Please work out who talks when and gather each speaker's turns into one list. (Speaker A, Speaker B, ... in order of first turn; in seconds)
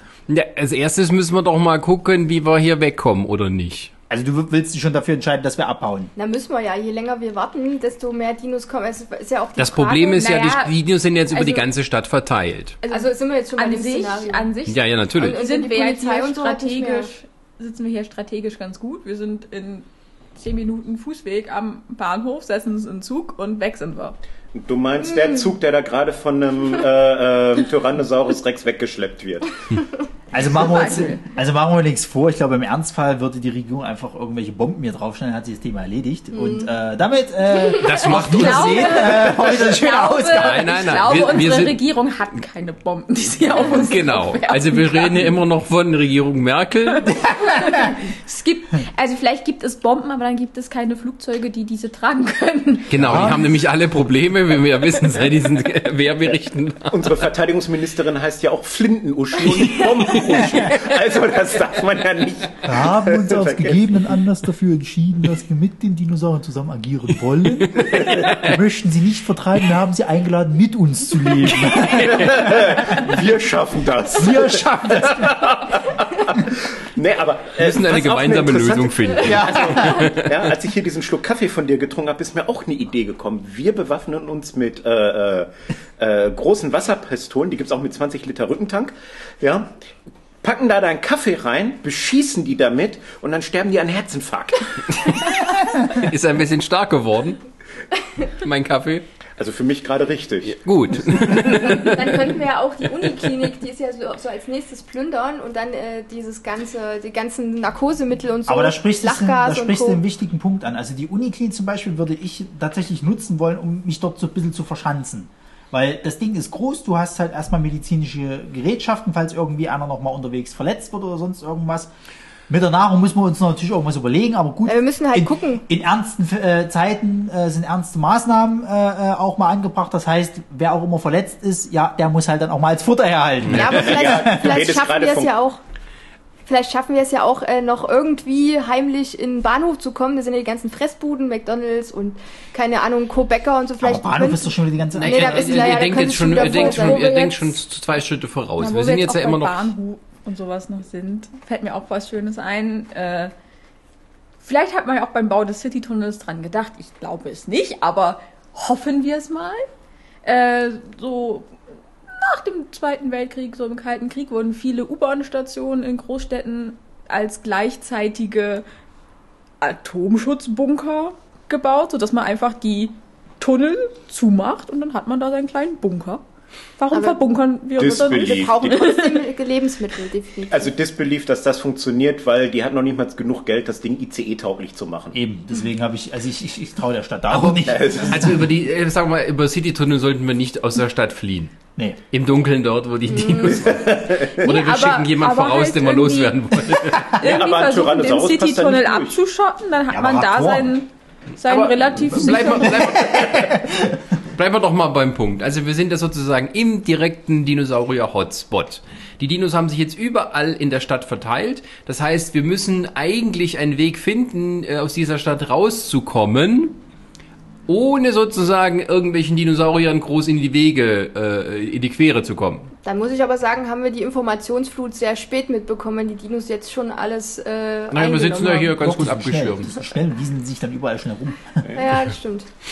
Speaker A: 0.3-3.9, 9.6-12.8, 14.7-15.4, 37.8-39.4, 40.3-41.8, 43.5-47.1, 52.9-57.2, 67.6-68.5, 71.4-72.6, 77.6-80.5, 94.9-97.4, 98.4-99.0, 100.5-102.1, 144.9-149.7, 187.3-191.5, 192.1-197.1, 201.4-203.7, 204.3-216.8, 217.7-222.7, 227.9-229.8
Speaker B: 4.1-6.1, 30.3-40.7, 47.3-47.6, 53.0-53.4, 62.6-73.0, 74.2-75.4, 79.2-80.0, 108.5-121.9, 122.5-134.6, 143.8-146.1, 185.1-188.5, 199.9-200.8, 202.8-204.0, 228.8-231.7
Speaker C: 6.2-10.3, 12.9-14.5, 15.2-17.1, 36.3-36.7, 101.5-110.0, 124.7-125.6, 133.5-135.6, 136.5-147.6, 176.9-177.2, 178.3-180.7, 193.1-193.7, 222.8-228.8, 231.8-232.5
Speaker D: 10.1-10.7, 11.3-11.7, 12.8-24.2, 30.6-31.2, 38.1-45.2, 47.0-53.2, 148.6-153.3, 154.4-159.7, 160.2-161.5, 162.1-168.7, 169.6-176.2, 176.8-179.3, 194.4-196.4, 197.2-202.9
Speaker E: 24.5-29.6, 56.9-63.8, 71.9-89.7, 90.4-95.2, 99.4-100.6, 133.7-135.3, 177.8-178.9, 180.5-185.2, 187.6-188.3, 193.7-194.3, 197.2-199.2